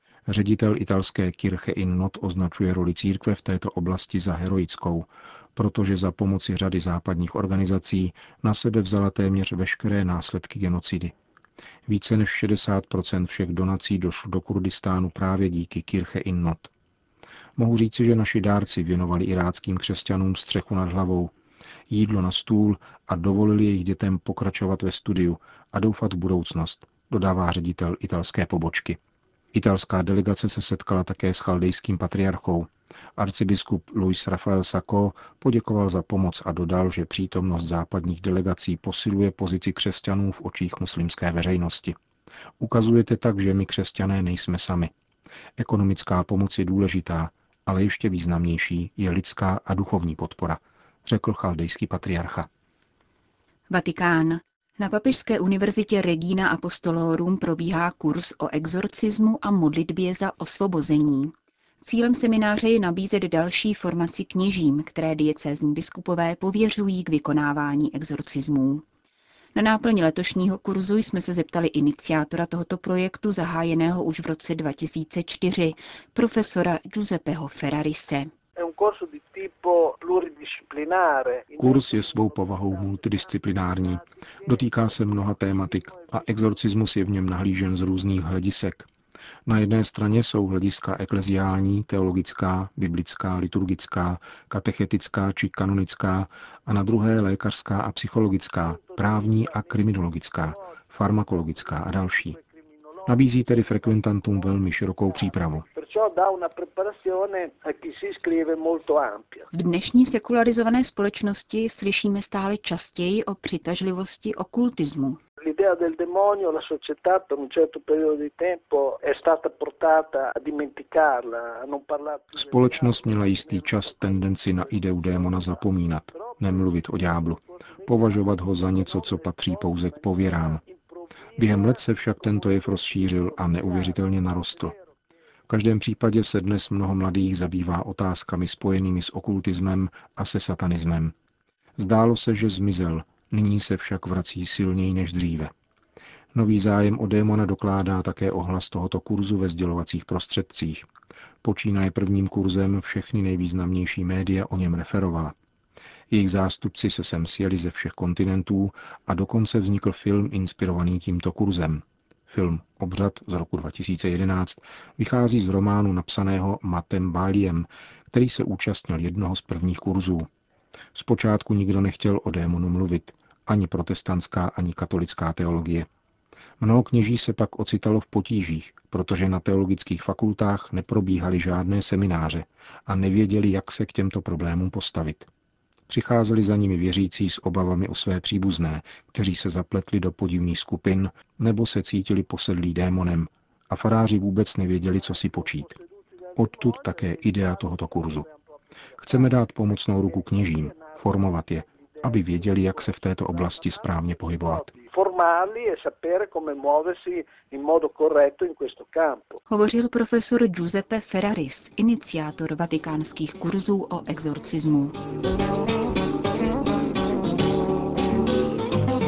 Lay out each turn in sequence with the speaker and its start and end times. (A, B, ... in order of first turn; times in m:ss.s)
0:00.3-0:11.1 A
0:11.9-0:16.7 A
0:17.6-0:21.3 A
0:21.9-0:29.0 A
0:29.5-0:42.0 A
0:42.6-0:44.9 A
0:45.6-0:52.5 A
0:53.7-1:08.8 B
1:09.6-1:18.3 B
1:18.6-1:26.1 C
1:21.6-1:28.9 A
1:29.5-1:42.4 A
1:38.8-1:39.7 C
1:43.0-1:44.4 C
1:43.1-1:45.7 A
1:45.7-1:49.5 C
1:49.5-1:55.2 B
1:55.4-2:05.6 C
2:02.3-2:10.6 A
2:06.3-2:14.8 C
2:11.4-2:14.8 A
2:15.5-2:21.1 A
2:21.8-2:25.5 A
2:26.3-2:30.8 A
2:31.4-2:35.3 A
2:36.1-2:50.3 A
2:50.9-2:55.9 A
2:56.6-3:05.3 A
3:05.9-3:15.8 A
3:15.7-3:18.4 C
3:16.4-3:18.3 A
3:19.0-3:19.2 C
3:19.0-3:24.8 A
3:20.1-3:29.4 C
3:29.5-3:35.0 B